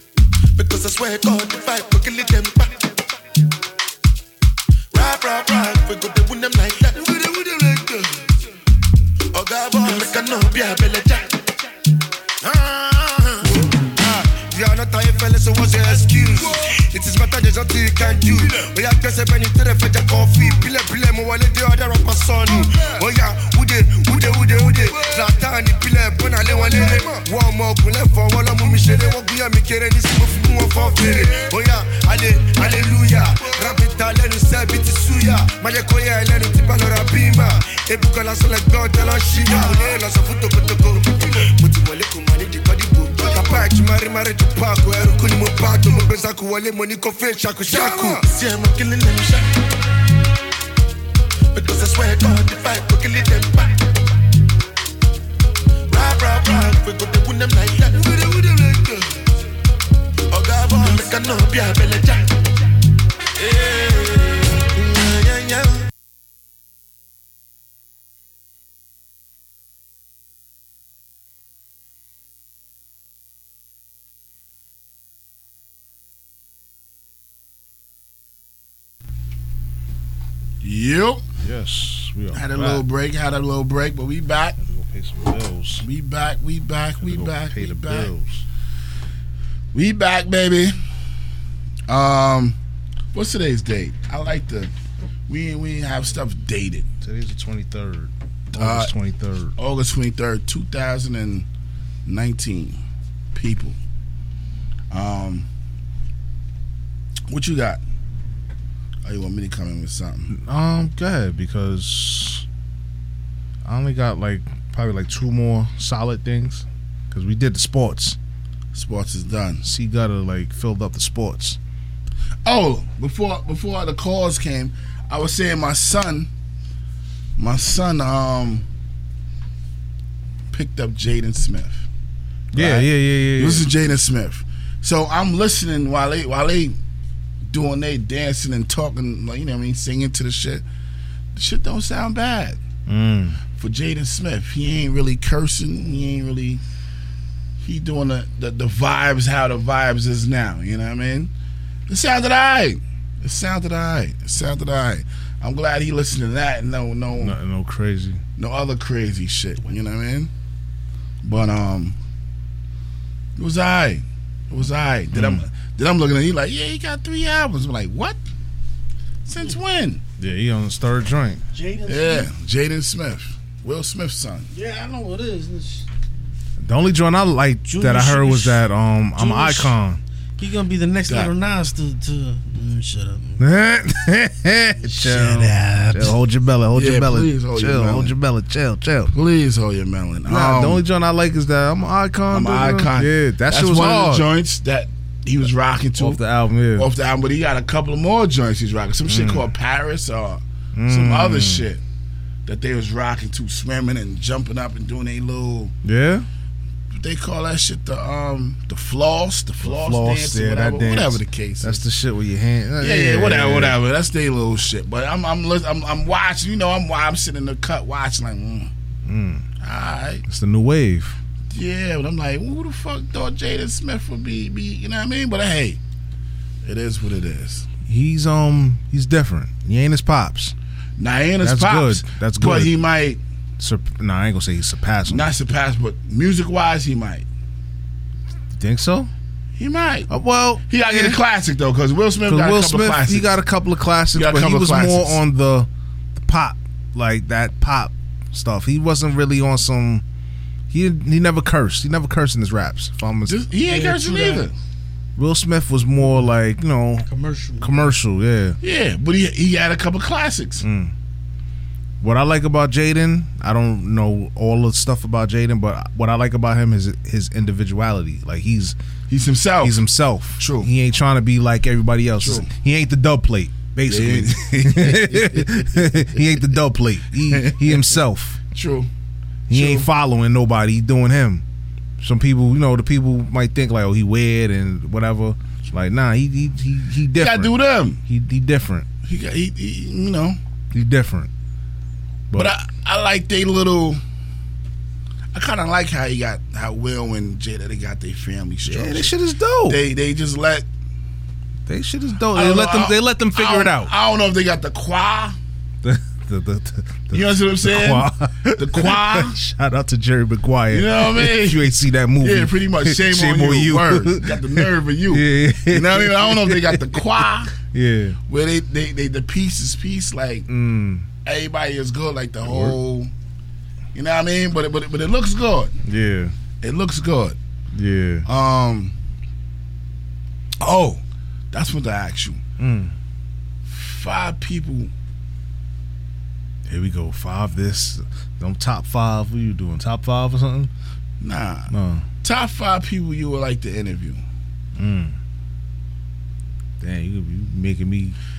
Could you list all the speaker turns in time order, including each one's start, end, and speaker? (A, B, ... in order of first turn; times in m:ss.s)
0:00.6-0:02.8 A
0:04.9-0:07.1 A
0:07.1-0:07.9 B
0:09.3-0:11.4 A
0:12.4-0:48.2 B
0:43.2-0:43.6 A
0:47.7-0:49.5 A
0:51.5-0:53.8 A
0:55.9-0:59.0 A
1:00.3-1:02.3 A
1:03.4-1:05.8 A
1:20.6-1:21.2 C
1:21.4-1:22.9 D
1:22.3-1:24.6 C
1:24.6-1:25.8 D
1:25.8-1:28.1 C
1:27.0-1:28.4 D
1:29.7-1:30.7 C
1:31.9-1:32.6 C
1:33.1-1:34.7 C
1:35.3-1:36.9 C
1:37.0-1:39.6 D
1:38.5-1:38.9 C
1:39.6-1:41.5 C
1:42.1-1:42.8 C
1:43.3-1:43.8 C
1:44.9-1:45.5 C
1:47.3-1:47.8 C
1:49.0-1:50.4 C
1:50.3-1:52.5 D
1:53.6-1:58.2 D
1:58.7-1:59.6 C
1:59.6-2:01.6 D
2:02.4-2:06.3 C
2:07.4-2:08.7 C
2:10.5-2:11.9 C
2:12.5-2:13.7 D
2:12.5-2:16.8 C
2:17.5-2:20.6 C
2:21.3-2:22.6 C
2:22.9-2:23.4 D
2:23.5-2:26.6 C
2:27.6-2:31.3 C
2:31.9-2:37.4 C
2:37.2-2:38.2 D
2:38.4-2:40.3 C
2:41.2-2:42.0 C
2:43.4-2:48.2 C
2:45.1-2:45.5 D
2:49.3-2:50.0 C
2:50.2-2:51.4 D
2:51.5-2:52.3 E
2:51.9-2:54.5 C
2:54.5-2:55.9 E
2:56.6-3:00.0 D
2:57.7-2:59.8 E
3:00.4-3:03.4 E
3:01.1-3:01.3 C
3:03.4-3:09.1 D
3:04.8-3:06.2 E
3:06.7-3:08.2 C
3:09.1-3:10.8 C
3:10.3-3:14.3 D
3:12.3-3:16.2 C
3:16.0-3:16.9 D
3:16.8-3:21.8 C
3:19.0-3:19.5 D
3:20.8-3:21.7 D
3:22.5-3:25.7 C
3:25.8-3:26.3 D
3:26.9-3:31.9 C
3:29.6-3:33.8 D
3:32.8-3:38.7 C
3:39.0-3:39.5 D
3:39.6-3:40.2 C
3:40.3-3:41.2 D
3:41.5-3:45.8 C
3:46.6-3:47.7 C
3:47.8-3:50.6 D
3:51.0-3:53.2 C
3:51.4-3:52.7 D
3:53.6-3:55.3 D
3:55.1-3:57.3 C
3:58.5-3:59.1 D
3:59.6-4:00.1 C
4:00.1-4:01.2 D
4:00.7-4:03.4 C
4:02.3-4:10.0 D
4:04.1-4:05.2 C
4:10.7-4:13.4 D
4:13.3-4:14.5 C
4:13.7-4:14.5 E
4:15.2-4:17.1 D
4:17.1-4:18.0 E
4:17.6-4:18.6 D
4:18.6-4:20.6 C
4:20.6-4:20.9 D
4:22.0-4:28.8 D
4:29.1-4:29.8 C
4:29.6-4:38.4 D
4:30.4-4:30.7 C
4:32.2-4:32.5 C
4:33.9-4:36.2 C
4:37.3-4:38.0 C
4:38.5-4:38.9 C
4:39.5-4:39.9 C
4:39.5-4:41.4 D
4:42.0-4:48.9 D
4:47.2-4:48.0 C
4:49.0-4:50.4 C
4:50.7-4:51.3 D
4:52.3-4:54.0 C
4:55.3-4:59.1 C
4:58.6-4:59.8 D
4:59.7-5:00.7 C
5:01.7-5:03.9 D
5:02.3-5:05.4 C
5:05.8-5:18.2 D
5:07.1-5:09.4 C
5:10.7-5:17.5 C
5:18.3-5:20.5 C
5:20.5-5:21.1 D
5:21.2-5:23.1 C
5:22.4-5:22.8 D
5:23.9-5:25.8 C
5:25.9-5:26.3 D
5:26.6-5:27.4 C
5:27.7-5:28.3 D
5:28.3-5:29.0 C
5:30.6-5:32.4 C
5:32.6-5:33.0 D
5:33.7-5:34.9 C
5:36.7-5:40.7 D
5:41.2-5:41.7 C
5:41.7-5:42.1 D
5:42.2-5:44.2 C
5:44.8-5:45.2 D
5:46.8-5:48.2 D